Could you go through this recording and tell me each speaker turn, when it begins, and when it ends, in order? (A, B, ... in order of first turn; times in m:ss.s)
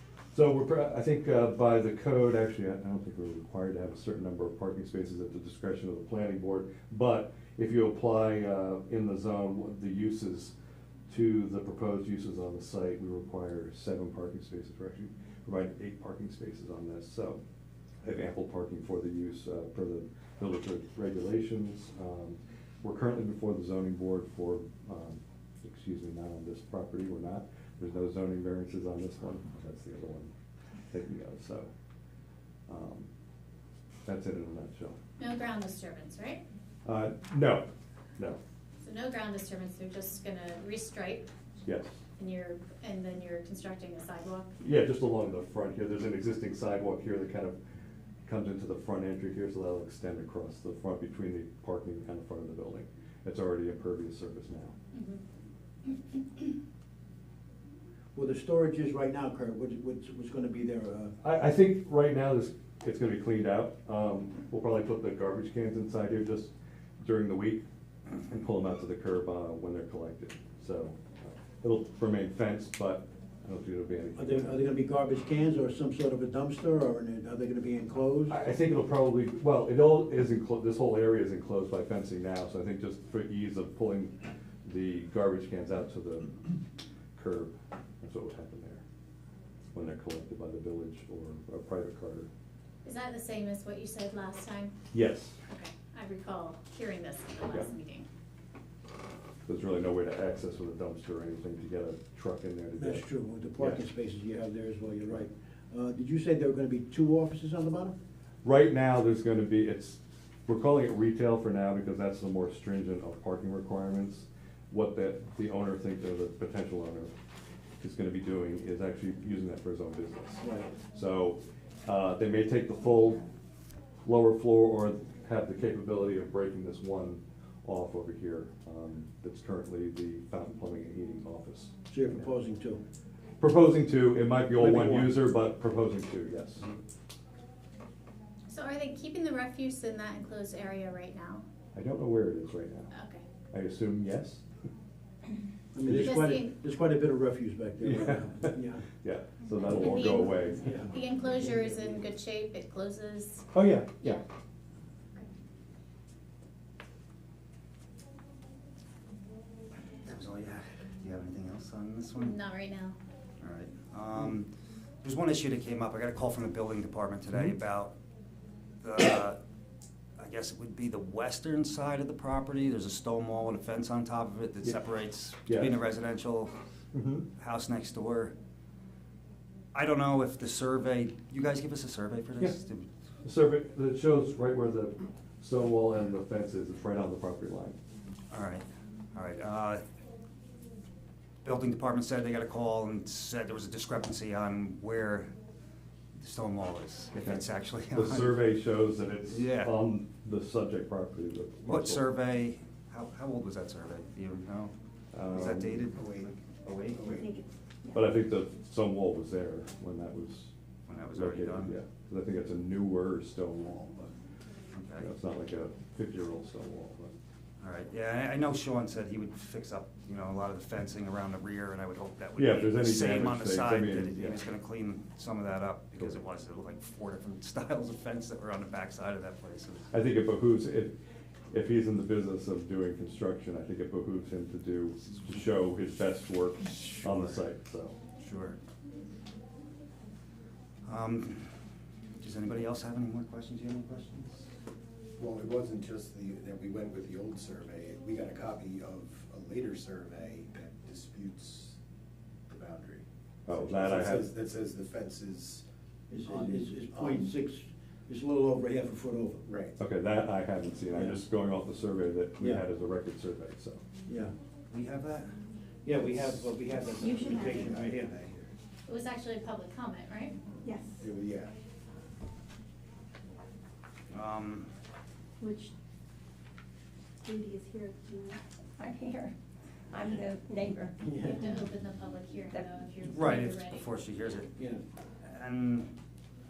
0:00.3-0:10.5 A
0:11.1-0:17.4 A
0:18.0-0:30.3 A
0:30.9-0:31.7 A
0:32.7-0:33.1 A
0:34.1-0:35.0 A
0:35.2-0:36.4 B
0:36.8-0:38.4 A
0:38.8-0:41.3 B
0:41.6-0:42.0 A
0:42.2-0:44.5 B
0:44.6-0:47.6 A
0:48.2-0:54.8 A
0:54.9-0:55.2 B
0:58.2-1:01.2 C
1:01.2-1:07.7 A
1:08.3-1:14.6 A
1:14.2-1:18.4 C
1:18.3-1:26.4 A
1:27.2-1:28.8 A
1:29.7-1:32.3 A
1:32.8-1:34.7 B
1:34.9-1:35.4 A
1:35.5-1:38.1 B
1:39.5-1:43.0 A
1:42.8-1:48.0 C
1:48.4-1:57.1 A
1:57.8-2:03.2 A
2:00.4-2:00.7 C
2:04.0-2:12.2 A
2:11.9-2:12.8 C
2:13.4-2:16.7 A
2:14.6-2:15.2 C
2:18.5-2:21.4 B
2:21.8-2:22.9 A
2:22.9-2:23.3 B
2:23.5-2:24.4 A
2:25.8-2:28.8 C
2:25.9-2:26.5 B
2:27.8-2:30.7 A
2:29.7-2:33.5 B
2:30.6-2:31.9 C
2:33.5-2:34.2 A
2:40.0-2:42.4 D
2:42.1-2:43.0 B
2:43.4-2:44.5 D
2:45.0-2:47.9 D
2:48.8-2:49.4 D
2:50.2-2:56.5 D
2:55.5-2:55.7 A
2:56.9-2:57.3 A
2:57.4-2:58.3 D
2:59.7-3:02.9 D
3:03.2-3:07.8 A
3:08.3-3:09.8 D
3:11.4-3:15.3 D
3:16.2-3:18.5 D
3:17.2-3:22.0 A
3:19.3-3:19.7 D
3:21.7-3:24.7 D
3:25.1-3:25.8 A
3:25.3-3:27.2 D
3:25.3-3:26.3 E
3:26.8-3:27.3 E
3:27.2-3:28.1 F
3:27.9-3:30.5 A
3:30.9-3:31.7 D
3:31.1-3:33.8 A
3:33.6-3:34.1 E
3:34.7-3:35.1 D
3:35.0-3:37.2 A
3:37.6-3:50.1 D
3:42.4-3:44.4 A
3:49.9-3:51.0 A
3:51.5-3:58.0 A
3:56.7-3:57.5 D
3:58.2-3:58.6 D
4:00.8-4:01.6 D
4:02.2-4:04.5 D
4:05.2-4:11.8 E
4:12.5-4:15.6 E
4:13.5-4:14.3 A
4:16.1-4:19.5 C
4:16.3-4:17.3 E
4:19.5-4:19.8 E
4:19.8-4:23.8 A
4:20.9-4:21.2 C
4:24.1-4:24.3 C
4:24.7-4:25.3 D
4:25.8-4:28.2 C
4:27.0-4:27.7 F
4:27.1-4:28.5 E
4:28.9-4:30.4 B
4:30.6-4:31.1 F
4:31.0-4:31.6 E
4:34.1-4:34.7 D
4:35.4-4:35.7 F
4:37.2-4:39.3 F
4:39.9-4:41.0 F
4:41.0-4:41.5 C
4:41.2-4:43.9 B
4:43.0-4:44.5 D
4:44.6-4:44.8 C
4:45.2-4:45.9 D